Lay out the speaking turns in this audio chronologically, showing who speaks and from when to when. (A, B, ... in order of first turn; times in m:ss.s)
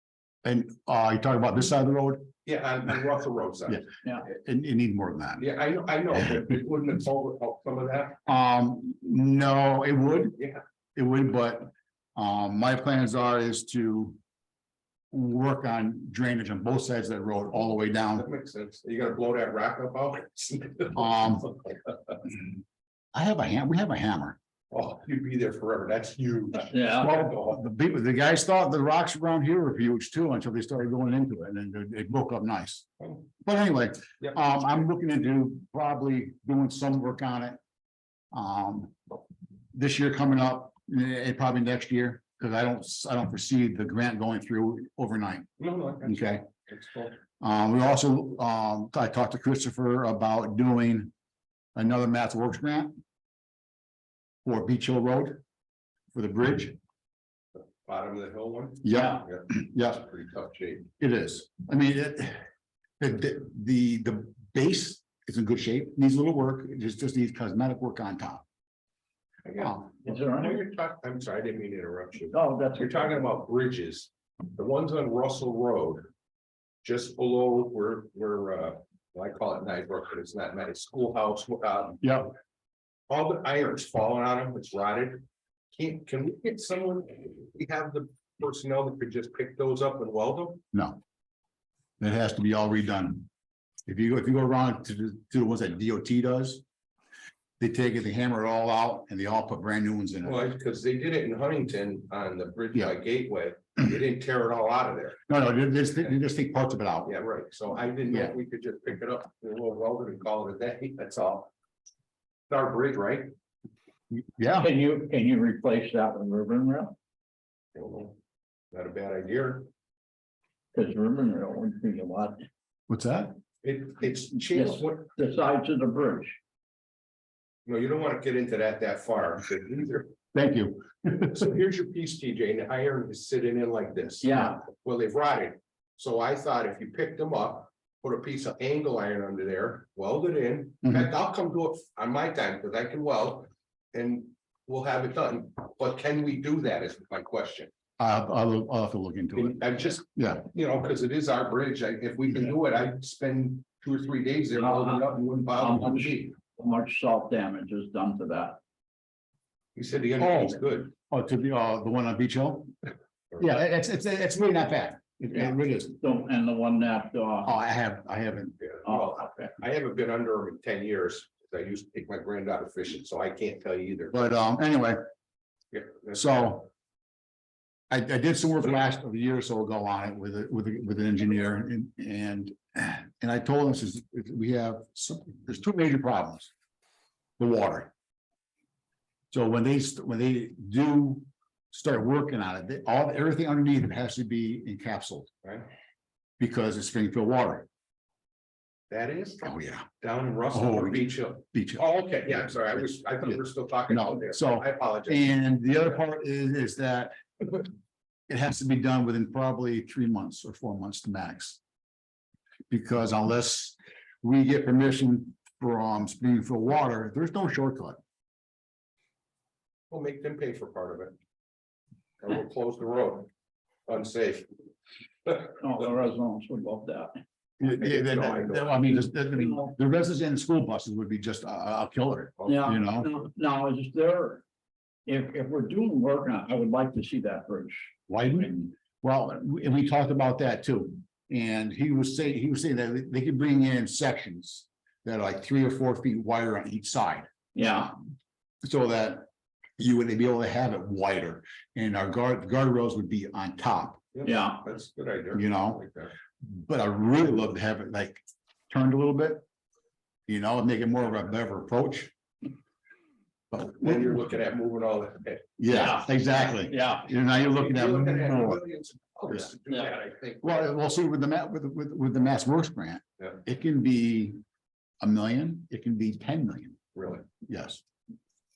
0:00.4-0:02.3 A
0:02.4-0:03.8 B
0:03.7-0:05.4 A
0:05.4-0:08.2 B
0:08.2-0:10.4 A
0:11.0-0:14.2 A
0:15.1-0:18.2 A
0:18.2-0:21.5 B
0:20.9-0:21.5 A
0:23.1-0:24.4 A
0:24.7-0:27.6 B
0:26.7-0:27.1 C
0:27.0-0:32.8 A
0:33.0-0:33.3 B
0:33.4-0:37.6 A
0:38.3-0:39.0 A
0:39.7-0:45.5 A
0:45.6-0:47.2 B
0:46.0-0:46.4 A
0:47.4-0:51.1 A
0:51.8-0:53.0 A
0:54.4-0:55.4 A
0:56.1-0:56.8 A
0:57.8-1:00.9 B
0:58.8-1:00.0 A
1:01.0-1:02.4 A
1:03.0-1:08.4 A
1:09.4-1:16.1 B
1:09.6-1:09.9 A
1:10.0-1:10.6 C
1:12.3-1:13.1 C
1:16.8-1:22.2 B
1:22.0-1:22.3 A
1:23.1-1:30.6 B
1:30.7-1:31.0 A
1:32.0-1:33.3 A
1:33.9-1:36.6 A
1:37.6-1:40.4 A
1:40.2-1:45.2 B
1:45.3-1:47.1 A
1:47.0-1:51.5 B
1:52.5-1:53.3 B
1:54.1-1:54.7 A
1:54.6-1:56.9 C
1:57.7-1:58.2 B
1:58.7-1:59.7 B
2:00.7-2:02.4 C
2:02.9-2:03.3 A
2:03.6-2:05.1 B
2:04.5-2:06.4 C
2:07.6-2:10.1 B
2:10.3-2:11.4 A
2:11.3-2:27.7 B
2:14.2-2:14.6 C
2:20.8-2:21.1 A
2:28.0-2:30.5 A
2:29.4-2:36.3 B
2:34.6-2:38.6 C
2:39.8-2:40.9 B
2:40.2-2:42.7 A
2:43.4-2:46.0 A
2:45.3-2:47.5 C
2:47.4-2:48.6 A
2:48.7-2:54.1 B
2:48.8-2:49.5 C
2:54.1-2:55.0 A
2:55.7-2:56.5 B
2:56.1-2:56.7 A
2:57.9-3:06.5 A
3:07.4-3:07.9 A
3:09.3-3:15.3 A
3:16.4-3:17.7 A
3:18.9-3:25.3 B
3:19.4-3:19.9 A
3:20.5-3:27.6 A
3:28.3-3:31.6 A
3:32.7-3:38.0 A
3:39.9-3:41.1 B
3:42.2-3:43.3 B
3:43.9-3:44.5 B
3:45.6-3:47.1 C
3:47.6-3:53.1 A
3:47.8-3:48.8 B
3:49.4-3:49.7 C
3:52.5-3:54.4 C
3:55.0-3:58.5 C
3:58.1-4:07.3 A
4:07.5-4:07.9 C
4:08.6-4:09.3 A
4:09.8-4:14.0 A
4:14.1-4:16.1 B
4:14.2-4:14.6 C
4:15.3-4:15.8 A
4:16.4-4:19.4 A
4:20.3-4:22.1 A
4:23.5-4:24.2 A
4:23.6-4:25.5 B
4:25.6-4:28.6 A
4:25.7-4:27.1 C
4:27.3-4:30.7 B
4:30.4-4:34.4 A
4:35.0-4:36.8 A
4:37.0-4:37.3 B
4:37.4-4:37.8 A